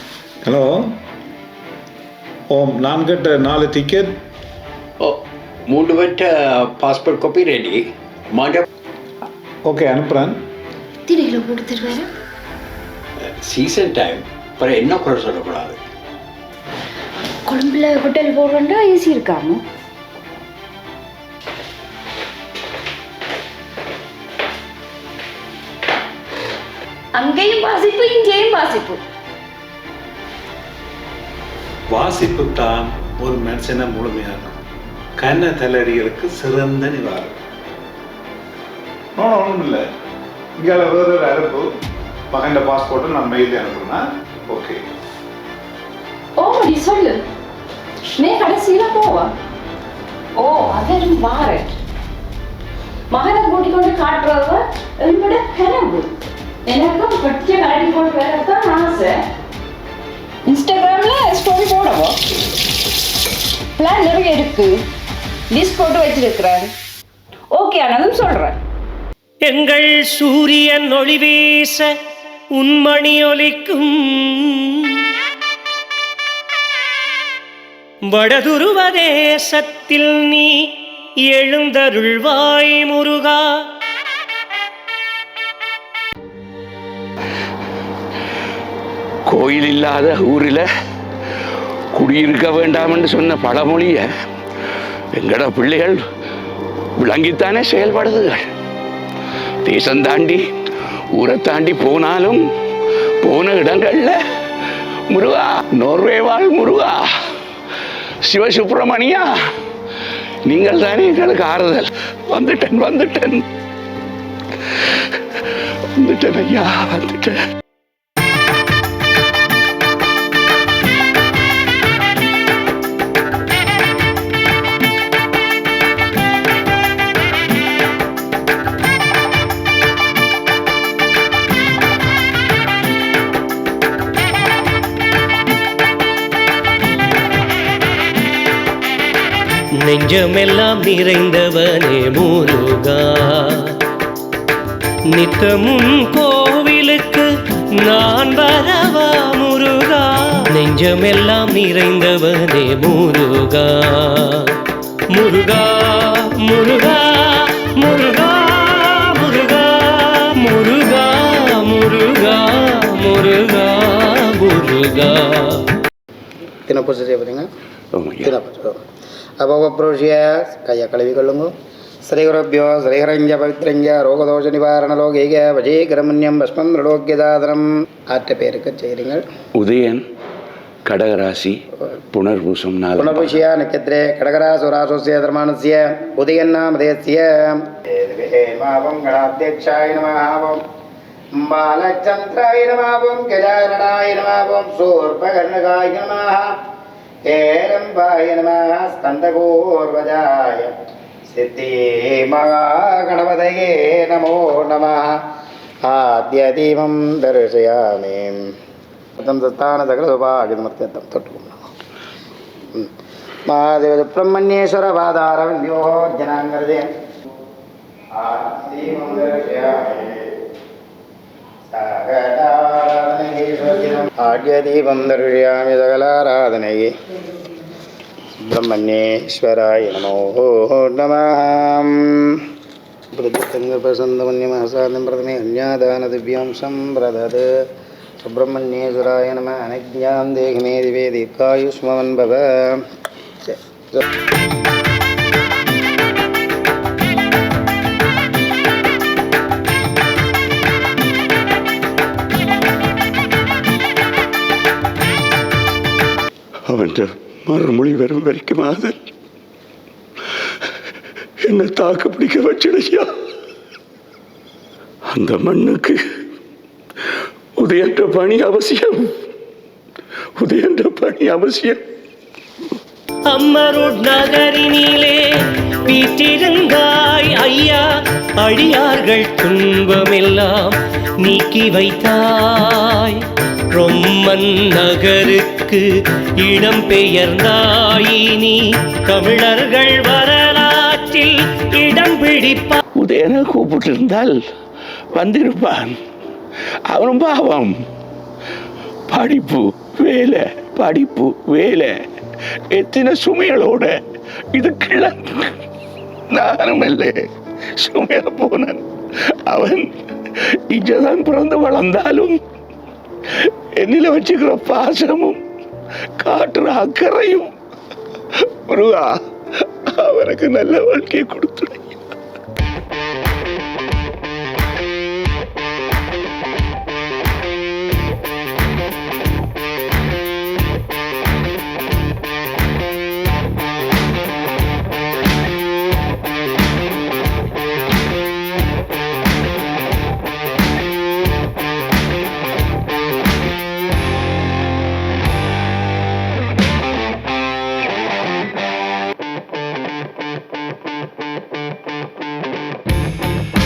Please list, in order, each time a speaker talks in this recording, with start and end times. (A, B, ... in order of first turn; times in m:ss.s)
0:00.4-0:01.0 A
0:02.5-0:04.1 A
0:05.7-0:08.6 B
0:09.7-0:10.4 A
0:11.1-0:12.1 C
0:13.4-0:15.8 B
0:17.5-0:19.6 C
0:27.1-0:29.0 C
0:31.9-0:34.5 A
0:35.2-0:37.4 A
0:39.2-0:39.8 A
0:40.6-0:41.7 A
0:42.3-0:44.8 A
0:46.4-0:47.2 C
0:48.2-0:49.3 C
0:50.4-0:51.7 C
0:53.1-0:56.1 C
0:56.7-0:59.2 C
1:00.5-1:02.2 C
1:03.8-1:04.8 C
1:05.5-1:06.7 C
1:07.5-1:08.6 C
1:09.5-1:11.9 D
1:12.6-1:15.0 D
1:18.1-1:20.5 D
1:21.3-1:23.4 D
1:29.3-1:30.6 E
1:32.0-1:34.1 E
1:35.2-1:36.0 E
1:37.0-1:38.4 E
1:39.6-1:40.4 E
1:41.2-1:42.4 E
1:43.2-1:44.2 E
1:45.1-1:47.0 E
1:48.3-1:49.3 E
1:50.5-1:53.5 E
1:56.0-1:57.4 E
2:19.8-2:23.8 D
2:25.1-2:27.3 D
2:27.8-2:34.6 D
2:35.1-2:45.7 D
2:46.7-2:47.5 F
2:48.0-2:48.3 E
2:48.2-2:48.8 F
2:49.4-2:51.5 F
2:52.1-2:59.2 F
2:59.6-3:00.0 E
3:00.9-3:01.6 E
3:02.1-3:03.4 E
3:03.0-3:10.6 F
3:11.4-3:16.5 F
3:17.3-3:20.7 F
3:21.3-3:25.1 F
3:25.8-3:28.4 F
3:29.2-3:31.6 F
3:33.5-3:36.9 F
3:38.2-3:40.4 F
3:41.7-3:46.9 F
3:48.4-3:52.4 F
3:53.1-3:57.5 F
3:58.2-4:02.8 F
4:03.4-4:04.0 F
4:16.7-4:19.0 E
4:21.4-4:23.1 E
4:25.1-4:26.0 E
4:27.6-4:29.2 E
4:30.4-4:31.8 E
4:33.3-4:35.2 D
4:35.9-4:37.8 D
4:38.4-4:43.2 D
4:43.7-4:45.8 D
4:46.4-4:52.8 D
4:53.0-4:54.4 E
4:55.1-4:55.9 E
4:56.9-4:57.7 E
4:59.1-5:01.9 E
5:02.7-5:04.0 E
5:04.5-5:05.6 E
5:06.3-5:07.2 E
5:07.8-5:12.4 E
5:13.4-5:15.4 E
5:16.2-5:17.5 E
5:18.7-5:22.0 E